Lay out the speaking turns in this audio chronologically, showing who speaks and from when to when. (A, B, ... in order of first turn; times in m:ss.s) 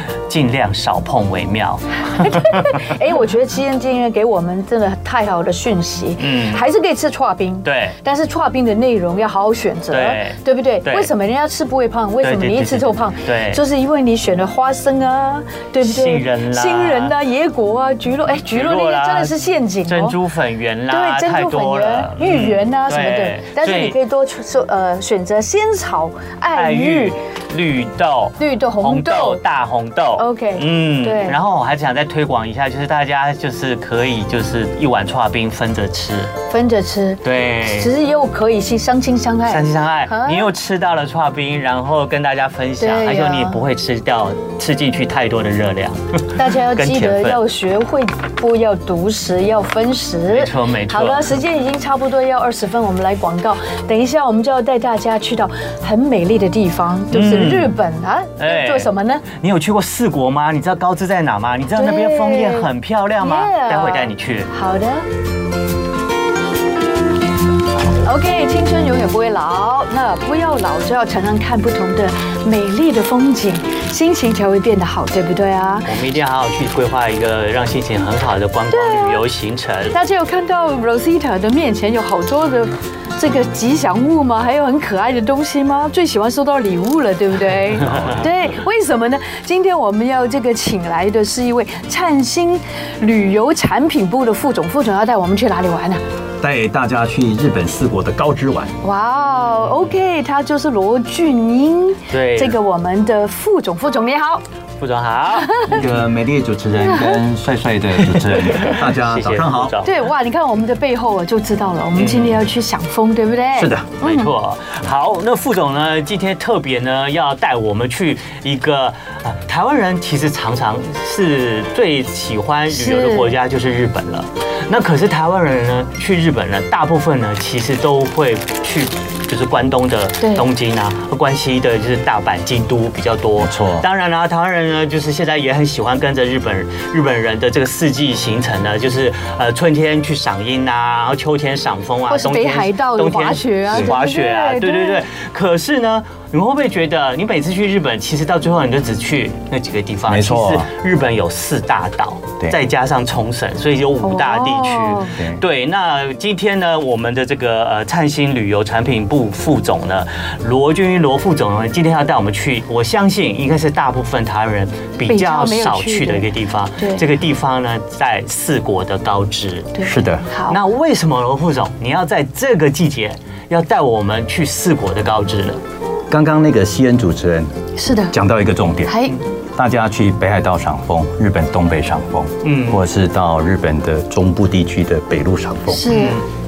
0:00.3-0:02.9 A
0:02.1-0:20.2 B
0:06.2-0:06.6 A
0:07.6-0:07.9 A
0:09.9-0:11.1 A
0:12.2-0:13.6 A
0:15.8-0:17.2 A
0:18.4-0:24.0 A
0:20.9-0:27.2 B
0:26.5-0:36.3 A
0:28.4-0:29.4 B
0:30.2-0:31.4 B
0:36.5-0:40.5 B
0:37.2-0:37.9 A
0:39.5-0:47.4 A
0:42.8-0:43.6 B
0:46.3-0:59.2 B
0:50.3-0:51.3 A
0:57.1-0:57.7 A
0:58.4-1:04.5 A
1:01.8-1:02.7 B
1:03.2-1:05.0 B
1:08.0-1:15.9 B
1:15.8-1:20.0 A
1:18.7-1:19.2 B
1:19.9-1:36.0 B
1:27.8-1:28.2 A
1:27.9-1:28.2 C
1:36.4-1:38.8 C
1:38.8-1:44.4 B
1:39.2-1:39.9 A
1:42.1-1:42.6 A
1:44.8-1:45.6 A
1:45.4-1:45.8 B
1:45.6-1:49.8 C
1:46.8-1:47.2 B
1:48.1-1:50.0 A
1:49.8-1:54.3 B
1:51.9-1:52.4 A
1:53.5-1:53.9 C
1:54.0-2:49.7 A
2:02.7-2:03.3 B
2:13.4-2:13.9 C
2:22.1-2:25.0 B
2:30.1-2:30.7 C
2:34.0-2:35.1 B
2:35.2-2:35.4 C
2:45.0-2:47.0 B
2:49.7-2:50.6 B
2:49.8-2:50.2 C
2:50.5-2:55.6 A
2:56.1-2:57.5 C
2:57.8-2:58.1 B
2:58.1-3:06.0 C
2:58.9-2:59.2 B
3:02.4-3:02.8 A
3:05.7-3:06.2 B
3:05.9-3:06.2 A